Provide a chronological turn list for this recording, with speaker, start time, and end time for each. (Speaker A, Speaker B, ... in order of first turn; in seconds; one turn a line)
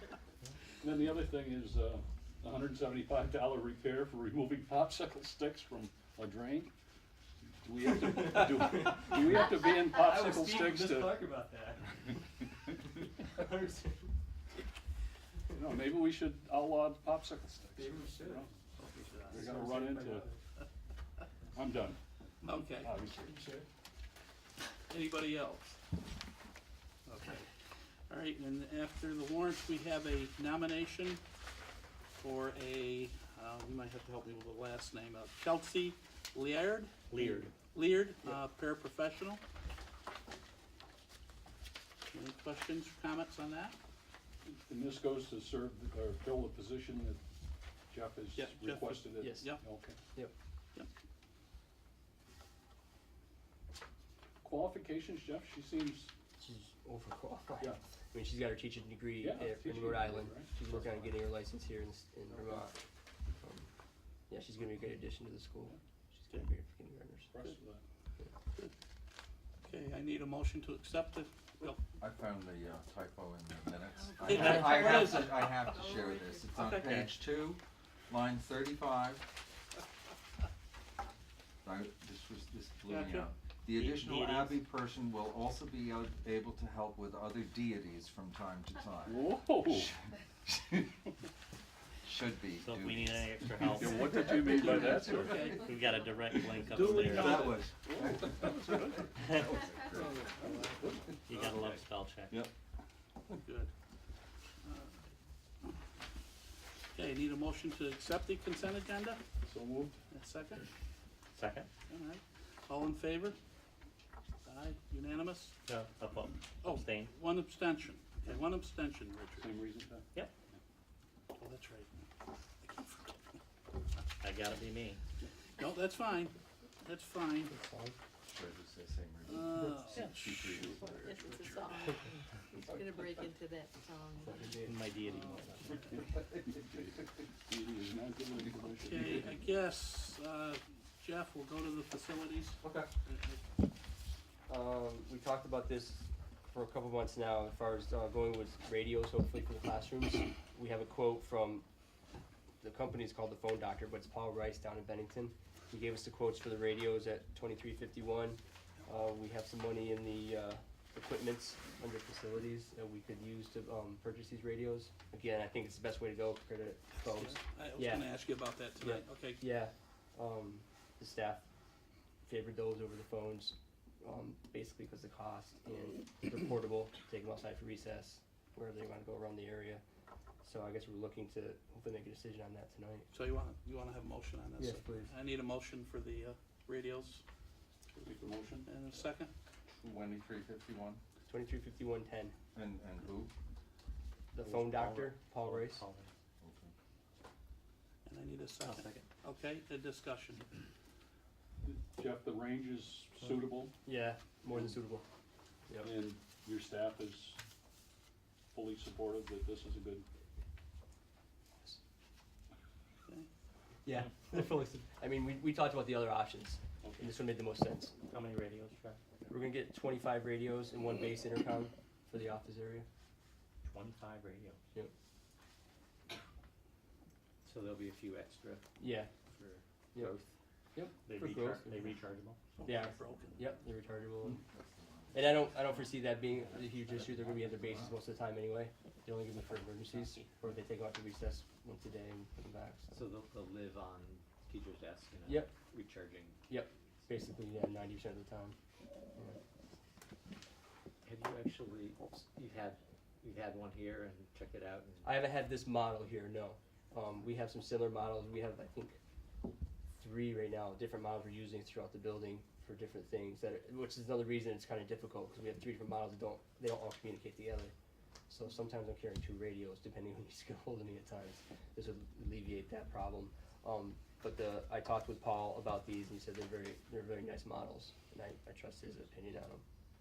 Speaker A: 0.8-6.7
Speaker A: 7.6-11.2
Speaker B: 7.8-12.1
Speaker B: 12.7-14.1
Speaker A: 15.5-20.3
Speaker B: 17.7-18.5
Speaker B: 19.2-20.4
Speaker A: 21.5-22.0
Speaker C: 22.4-23.0
Speaker A: 22.8-23.4
Speaker B: 23.1-23.6
Speaker C: 24.9-25.8
Speaker C: 27.1-27.5
Speaker C: 28.1-31.2
Speaker C: 32.2-39.4
Speaker D: 37.1-37.5
Speaker C: 42.1-43.8
Speaker A: 44.5-47.2
Speaker A: 47.9-50.0
Speaker C: 48.3-49.6
Speaker B: 49.1-49.5
Speaker A: 54.4-56.1
Speaker B: 56.4-62.7
Speaker A: 59.2-61.1
Speaker B: 63.4-63.7
Speaker B: 64.3-67.3
Speaker A: 67.3-67.8
Speaker C: 69.6-71.8
Speaker E: 72.0-79.2
Speaker C: 74.2-75.7
Speaker D: 74.3-74.7
Speaker F: 75.7-76.7
Speaker C: 76.5-76.8
Speaker D: 76.8-77.1
Speaker E: 81.6-91.0
Speaker C: 82.9-83.3
Speaker D: 83.7-84.6
Speaker A: 89.1-89.9
Speaker E: 92.0-100.2
Speaker D: 92.6-94.0
Speaker A: 93.6-95.5
Speaker C: 94.4-95.7
Speaker D: 95.5-97.5
Speaker C: 97.0-97.6
Speaker A: 97.1-99.0
Speaker D: 99.2-99.5
Speaker A: 100.0-101.4
Speaker C: 100.4-100.7
Speaker D: 101.2-102.4
Speaker C: 103.3-103.7
Speaker C: 104.6-105.0
Speaker C: 106.9-109.2
Speaker A: 109.5-110.0
Speaker C: 110.1-110.7
Speaker D: 111.3-111.7
Speaker C: 111.9-113.4
Speaker C: 114.4-115.5
Speaker D: 115.7-117.1
Speaker C: 116.6-119.5
Speaker A: 119.4-120.1
Speaker C: 121.4-121.9
Speaker C: 122.6-123.1
Speaker D: 124.2-125.0
Speaker C: 125.6-127.5
Speaker B: 127.5-128.0
Speaker E: 128.2-131.7
Speaker C: 129.2-130.6
Speaker F: 131.0-134.7
Speaker E: 132.6-133.0
Speaker B: 134.2-134.8
Speaker D: 134.7-135.9
Speaker C: 135.0-136.0
Speaker A: 135.9-139.4
Speaker C: 138.8-143.4
Speaker E: 142.6-142.9
Speaker B: 144.5-151.7
Speaker B: 152.6-168.1
Speaker C: 167.0-169.4
Speaker B: 168.8-171.4
Speaker B: 172.2-179.8
Speaker B: 180.4-183.1
Speaker C: 183.1-187.2
Speaker B: 184.6-185.1
Speaker A: 188.0-188.9
Speaker C: 188.6-189.3
Speaker E: 189.8-191.0
Speaker B: 191.2-192.3
Speaker E: 192.5-193.3
Speaker B: 194.3-195.8
Speaker D: 194.4-196.1
Speaker E: 196.4-196.7
Speaker C: 198.1-200.5
Speaker D: 198.6-199.1
Speaker A: 201.6-203.7
Speaker B: 203.8-205.0
Speaker A: 205.8-207.4
Speaker A: 208.5-210.1
Speaker B: 213.8-217.9
Speaker A: 216.8-217.1
Speaker D: 218.1-219.0
Speaker B: 219.3-222.8
Speaker D: 223.6-224.6
Speaker G: 227.4-228.7
Speaker B: 228.8-229.1
Speaker G: 229.2-230.3
Speaker B: 230.7-231.9
Speaker D: 231.0-232.7
Speaker C: 232.6-233.4
Speaker B: 232.6-234.4
Speaker E: 234.4-235.5
Speaker B: 235.1-242.9
Speaker G: 236.5-237.3
Speaker E: 237.5-237.9
Speaker G: 242.9-246.4
Speaker B: 245.2-245.5
Speaker B: 246.5-248.6
Speaker G: 251.0-255.2
Speaker B: 255.0-259.0
Speaker B: 259.9-267.7
Speaker B: 268.3-279.6